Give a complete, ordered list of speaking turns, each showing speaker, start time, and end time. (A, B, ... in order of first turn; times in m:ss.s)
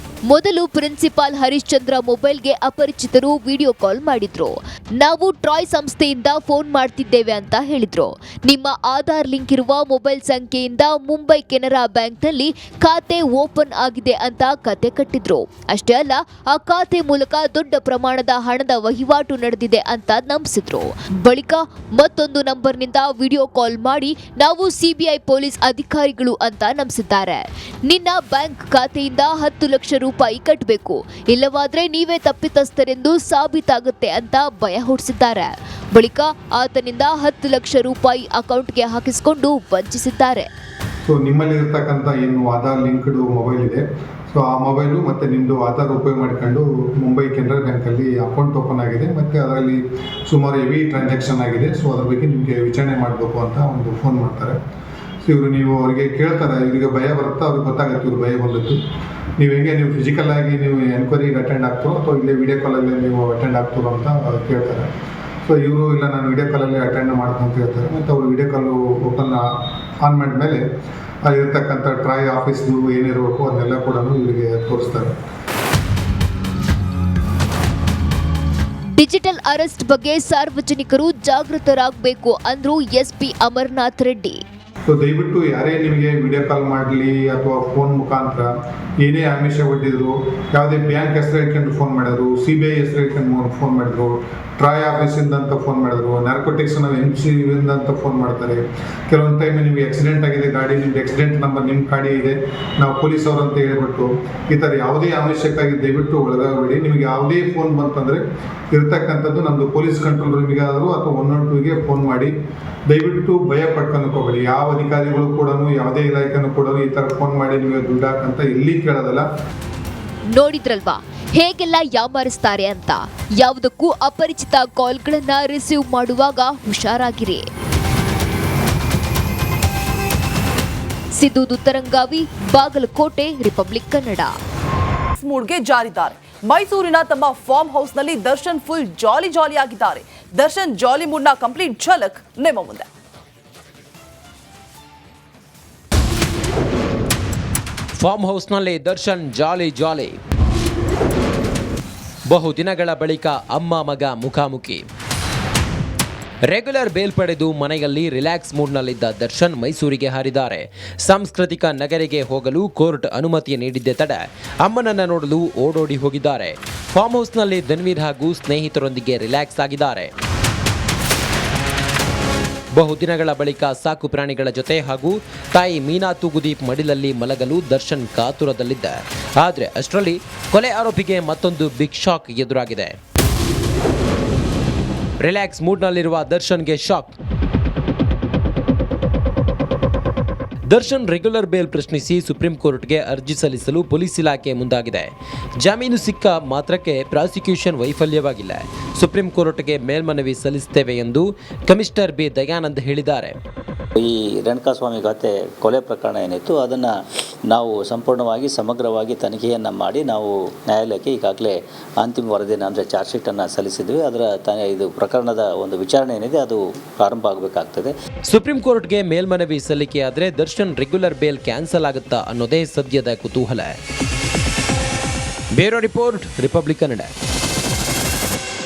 0:00.3-0:40.5 A
0:41.0-0:54.6 B
0:55.2-0:58.8 B
0:59.4-1:04.9 B
1:05.4-1:09.4 B
1:10.0-1:10.6 B
1:11.2-1:15.1 B
1:19.0-1:24.4 A
1:24.9-1:52.3 B
1:52.9-1:59.2 B
2:00.3-2:07.4 A
2:11.2-2:14.3 A
2:15.2-2:22.9 C
2:28.0-2:30.2 D
2:32.3-2:34.8 D
2:36.5-2:50.1 D
2:52.7-3:03.0 D
3:05.2-3:07.1 D
3:10.7-3:23.4 D
3:24.0-3:27.0 E
3:27.5-3:37.9 E
3:38.2-3:43.7 D
3:45.5-3:47.1 D